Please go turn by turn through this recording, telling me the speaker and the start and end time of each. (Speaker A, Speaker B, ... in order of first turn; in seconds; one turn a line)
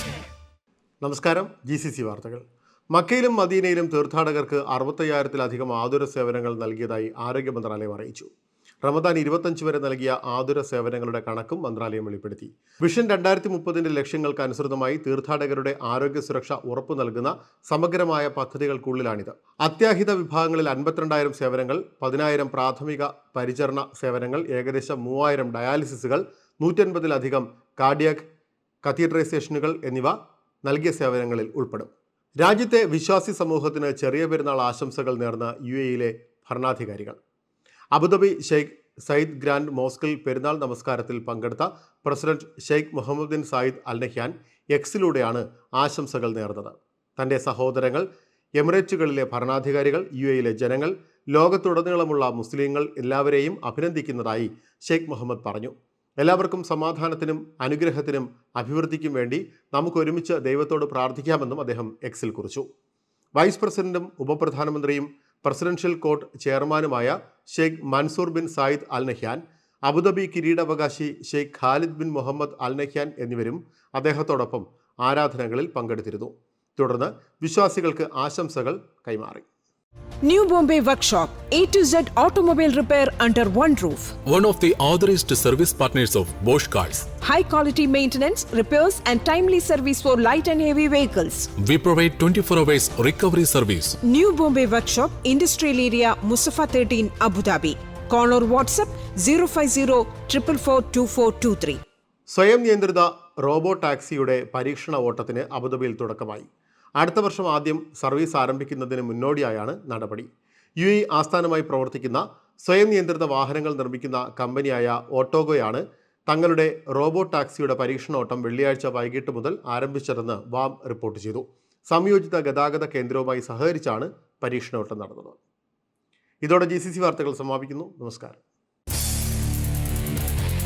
Speaker A: 1.0-8.3
Speaker A: 8.8-28.2
Speaker A: 28.8-37.2
Speaker A: 37.9-62.6
Speaker A: 63.4-79.4
Speaker B: 80.2-84.1
Speaker C: 84.2-87.0
Speaker B: 87.1-91.5
Speaker C: 91.6-94.0
Speaker B: 94.0-101.8
Speaker A: 102.3-106.5
Speaker A: 107.0-110.3
Speaker A: 110.8-125.4
Speaker A: 126.4-128.4